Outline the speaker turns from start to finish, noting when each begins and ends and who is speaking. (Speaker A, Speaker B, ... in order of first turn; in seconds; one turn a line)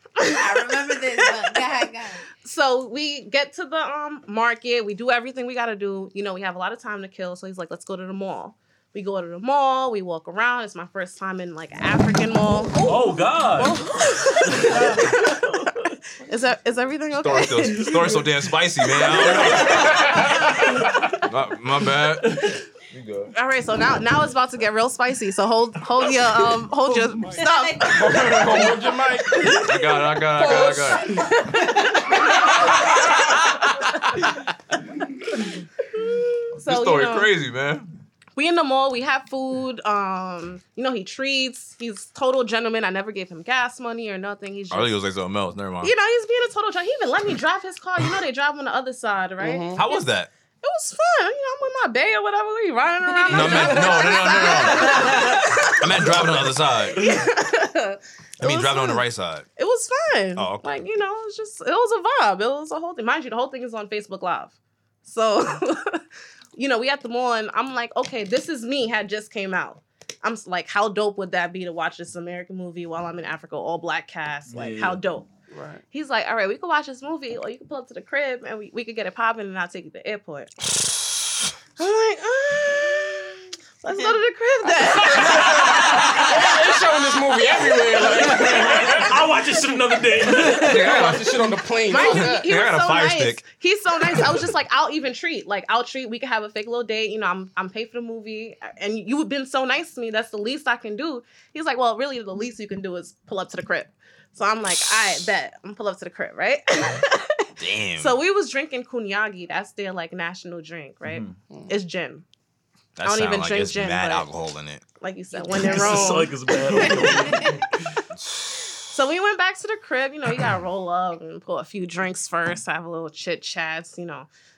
Speaker A: 0.2-1.7
Speaker B: 0.3-2.3
Speaker A: 2.4-13.0
Speaker C: 12.8-15.9
Speaker A: 13.6-15.3
Speaker A: 16.2-18.2
Speaker D: 17.1-20.5
Speaker C: 17.8-18.1
Speaker A: 19.0-20.2
Speaker C: 19.2-19.8
Speaker E: 19.9-20.7
Speaker D: 21.2-23.3
Speaker C: 22.3-22.5
Speaker A: 23.3-28.7
Speaker C: 26.9-27.4
Speaker B: 27.2-28.7
Speaker E: 27.9-29.8
Speaker D: 29.6-31.3
Speaker E: 30.4-31.1
Speaker A: 31.5-34.3
Speaker E: 32.0-32.3
Speaker A: 35.9-37.3
Speaker D: 36.6-37.9
Speaker A: 38.4-44.9
Speaker D: 44.7-45.9
Speaker A: 45.8-50.0
Speaker E: 49.4-49.8
Speaker D: 49.8-50.3
Speaker A: 50.6-59.0
Speaker B: 53.2-54.1
Speaker D: 53.3-57.0
Speaker D: 58.4-59.5
Speaker A: 59.6-66.0
Speaker D: 60.4-60.7
Speaker A: 66.6-75.3
Speaker C: 74.5-75.0
Speaker E: 75.5-75.8
Speaker A: 75.9-80.7
Speaker A: 81.8-89.0
Speaker C: 84.8-86.4
Speaker E: 85.2-89.1
Speaker C: 88.1-91.1
Speaker E: 90.5-92.5
Speaker D: 90.5-91.4
Speaker A: 91.9-112.2
Speaker D: 92.0-93.5
Speaker D: 104.8-105.3
Speaker D: 107.6-108.2
Speaker C: 111.0-111.4
Speaker D: 113.0-114.8
Speaker A: 113.0-114.3
Speaker A: 115.0-117.6
Speaker B: 115.4-115.7
Speaker C: 115.5-117.8
Speaker B: 117.1-117.6
Speaker D: 118.2-118.8
Speaker A: 118.9-124.3